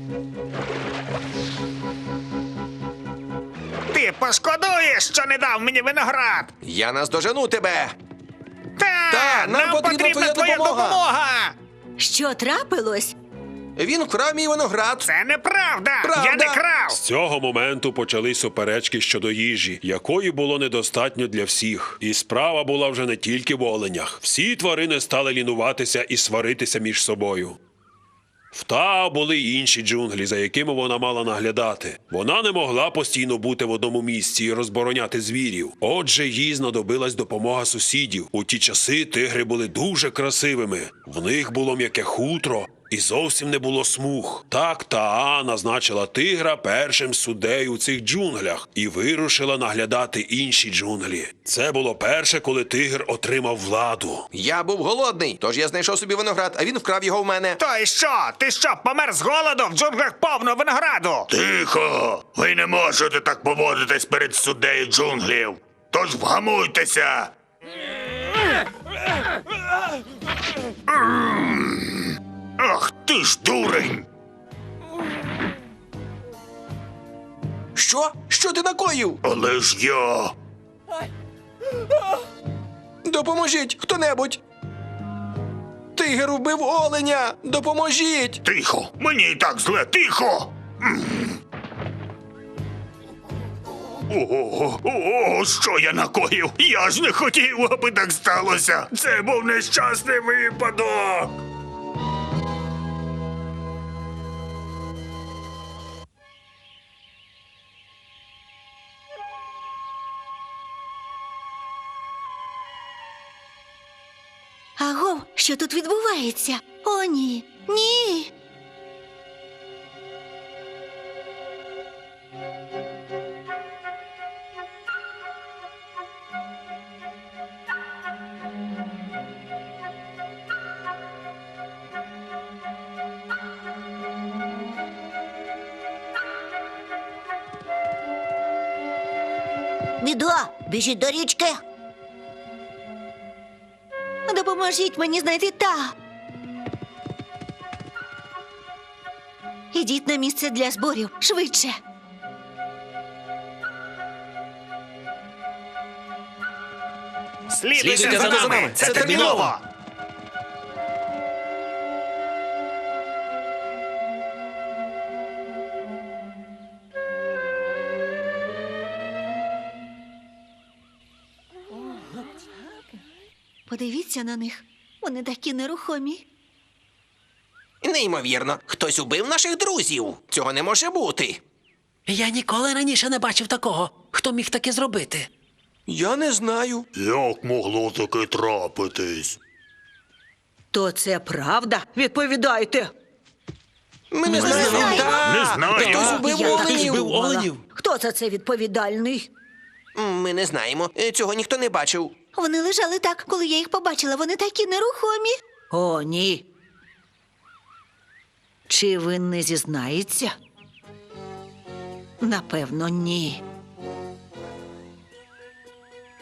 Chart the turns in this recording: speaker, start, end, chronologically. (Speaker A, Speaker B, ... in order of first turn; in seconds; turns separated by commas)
Speaker A: 3.9-6.5, Speaker B: 6.6-8.0, Speaker A: 8.8-11.6, Speaker B: 9.1-11.0, Speaker C: 12.0-13.1, Speaker B: 13.8-15.1, Speaker A: 15.1-17.0, Speaker B: 16.0-16.6, Speaker D: 16.9-27.6, Speaker D: 28.5-54.3, Speaker B: 54.3-57.6, Speaker A: 57.6-61.3, Speaker E: 61.3-67.3, Speaker E: 70.9-74.0, Speaker B: 77.7-79.2, Speaker E: 79.2-80.3, Speaker B: 83.0-84.4, Speaker B: 85.9-88.4, Speaker E: 88.4-91.4, Speaker E: 94.1-101.4, Speaker C: 114.8-118.3, Speaker C: 140.0-141.6, Speaker C: 144.3-145.9, Speaker C: 149.7-151.8, Speaker A: 157.5-159.6, Speaker F: 157.8-159.4, Speaker B: 157.8-159.5, Speaker C: 173.7-176.2, Speaker B: 177.8-181.4, Speaker F: 182.1-185.3, Speaker B: 185.9-186.9, Speaker E: 186.9-189.4, Speaker G: 190.7-192.9, Speaker B: 194.1-196.9, Speaker F: 194.3-197.6, Speaker E: 194.3-196.2, Speaker C: 194.4-195.2, Speaker G: 194.4-195.2, Speaker G: 195.7-199.3, Speaker B: 199.9-202.1, Speaker C: 202.3-205.4, Speaker G: 205.7-206.5, Speaker G: 208.7-210.3, Speaker G: 212.2-213.4